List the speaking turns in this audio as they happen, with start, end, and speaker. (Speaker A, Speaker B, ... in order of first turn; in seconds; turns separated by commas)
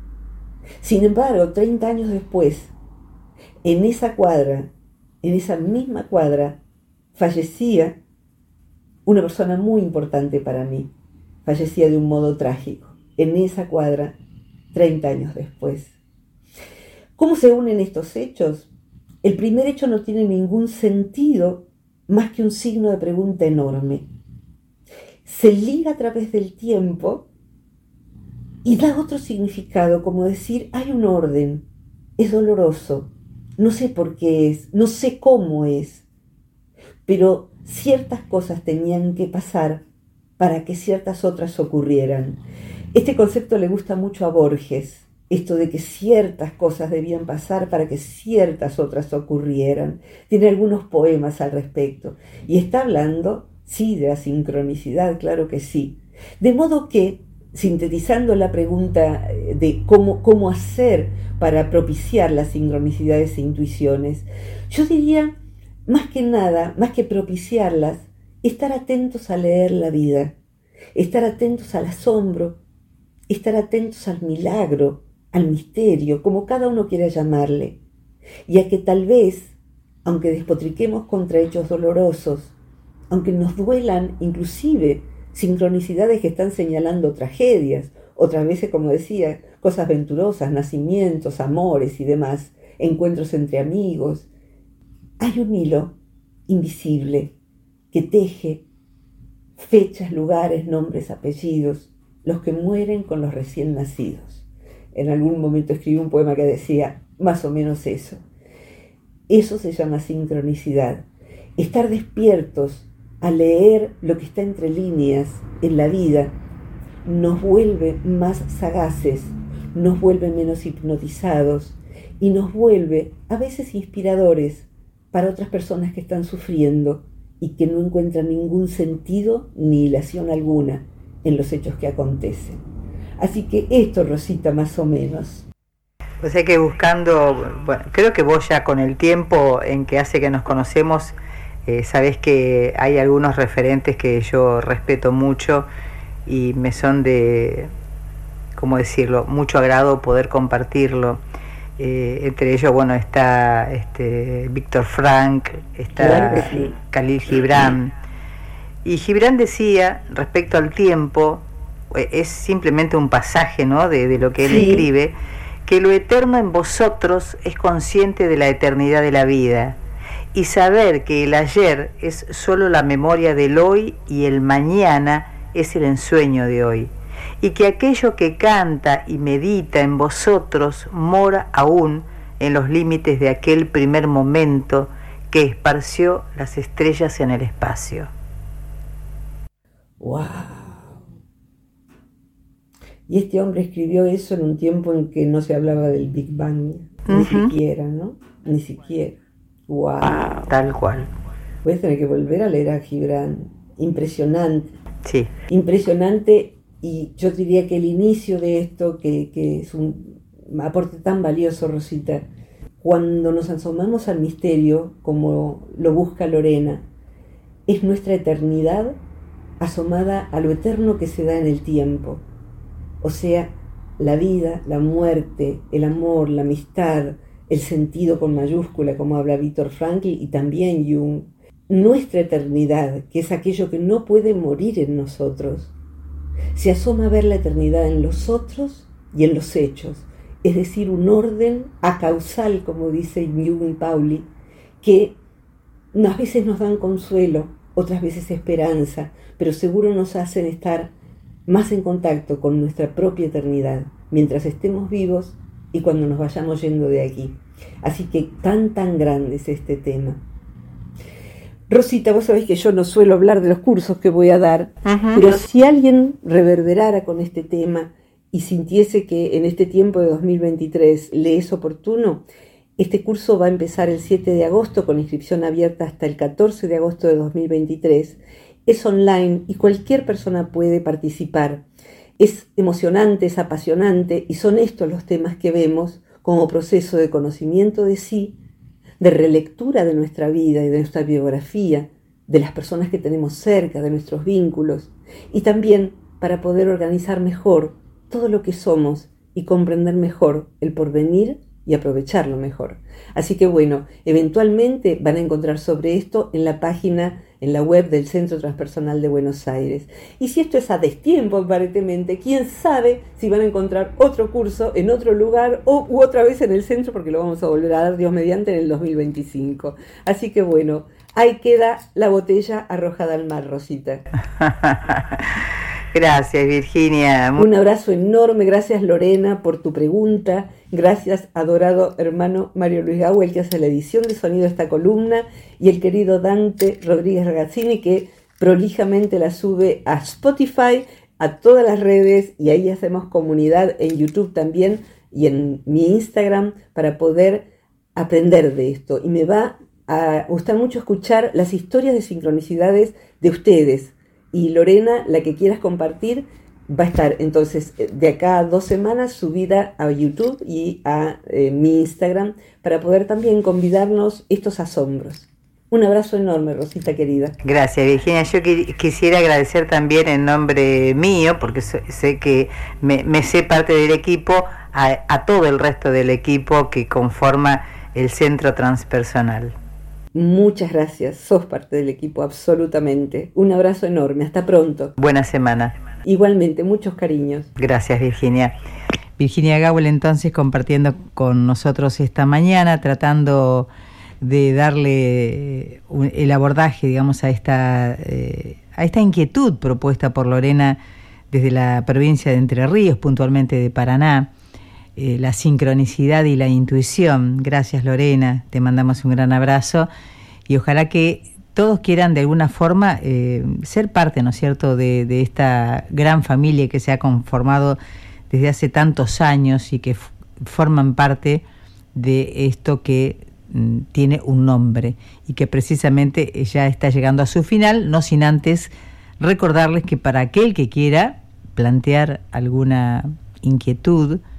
Speaker A: 0.8-2.8, Speaker A: 3.6-4.7, Speaker A: 5.2-6.6, Speaker A: 7.2-8.0, Speaker A: 9.1-10.9, Speaker A: 11.4-14.2, Speaker A: 14.7-15.9, Speaker A: 17.2-18.7, Speaker A: 19.2-24.1, Speaker A: 25.2-27.3, Speaker A: 28.6-31.6, Speaker A: 32.2-36.0, Speaker A: 37.1-39.9, Speaker A: 40.4-42.4, Speaker A: 42.9-65.3, Speaker A: 65.9-70.4, Speaker A: 71.0-72.6, Speaker A: 73.3-77.8, Speaker A: 78.5-82.5, Speaker A: 83.1-94.3, Speaker A: 95.2-96.0, Speaker A: 96.5-97.3, Speaker A: 97.9-98.6, Speaker A: 99.6-108.2, Speaker A: 109.3-111.1, Speaker A: 111.6-116.3, Speaker A: 117.0-132.6, Speaker A: 133.2-135.5, Speaker B: 136.2-141.1, Speaker B: 141.7-145.7, Speaker B: 146.3-147.7, Speaker B: 148.6-151.2, Speaker B: 151.8-157.9, Speaker A: 156.0-156.7, Speaker B: 158.8-165.1, Speaker A: 164.5-164.9, Speaker B: 165.7-169.8, Speaker B: 170.3-188.1, Speaker A: 190.0-191.0, Speaker A: 193.1-199.2, Speaker B: 197.1-197.5, Speaker A: 199.7-200.5, Speaker B: 200.0-201.1, Speaker A: 201.6-204.7, Speaker B: 205.0-205.3, Speaker A: 205.5-212.2, Speaker A: 212.8-216.9, Speaker A: 217.7-219.0, Speaker A: 219.6-222.2, Speaker A: 223.0-235.7, Speaker A: 236.6-244.3, Speaker A: 244.8-245.2, Speaker A: 245.9-250.9, Speaker A: 251.5-260.2, Speaker A: 261.7-272.2, Speaker B: 264.9-265.4, Speaker A: 272.8-281.6, Speaker A: 282.2-288.4, Speaker A: 289.0-324.0, Speaker B: 324.4-327.5, Speaker A: 327.4-367.4, Speaker B: 367.4-379.6, Speaker A: 380.1-384.9, Speaker B: 385.0-385.7, Speaker A: 386.0-387.5, Speaker B: 387.6-388.5, Speaker B: 389.2-393.7, Speaker B: 394.2-400.8, Speaker B: 401.3-404.3, Speaker B: 405.0-409.9, Speaker B: 410.5-417.8, Speaker B: 418.3-434.2